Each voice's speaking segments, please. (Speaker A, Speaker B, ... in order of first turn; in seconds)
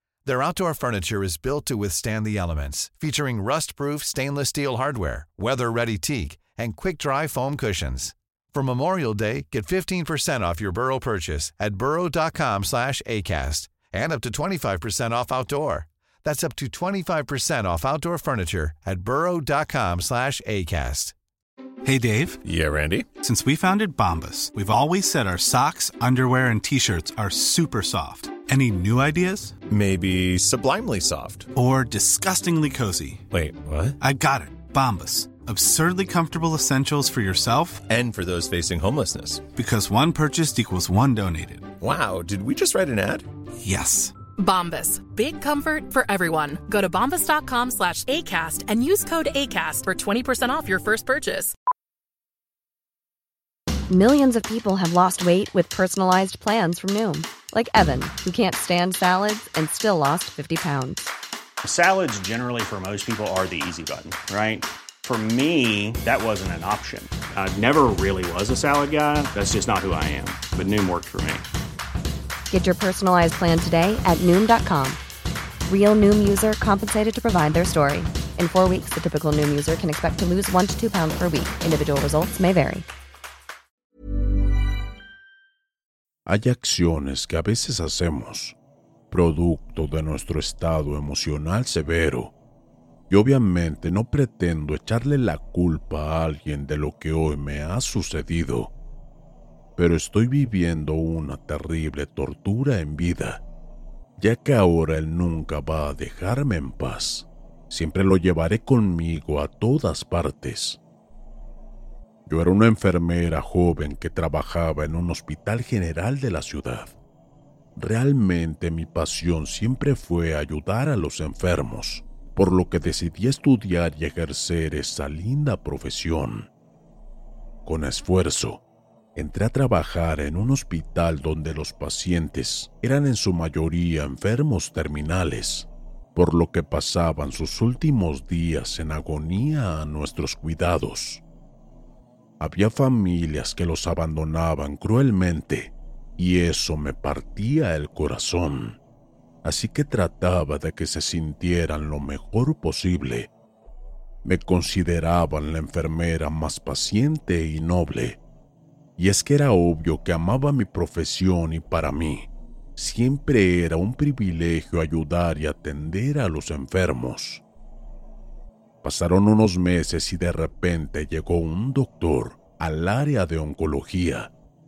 Speaker A: 0.2-21.1
Speaker B: 21.8-22.4, 23.1-29.6, 31.5-33.2, 34.0-37.8, 39.5-41.7, 43.6-44.1
Speaker C: 22.4-23.1, 29.7-31.5, 33.3-34.0, 37.9-39.5, 41.8-43.2
Speaker D: 44.3-51.5
Speaker E: 53.9-61.1, 72.5-75.0, 75.7-82.8
Speaker F: 61.6-71.4
Speaker G: 86.2-88.6, 89.1-92.3, 93.1-98.7, 99.8-103.4, 104.2-110.8, 112.2-116.9, 117.8-126.5, 127.6-128.6, 129.1-141.2, 142.4-148.8, 149.4-153.3, 154.2-158.2, 159.0-167.4, 168.8-174.3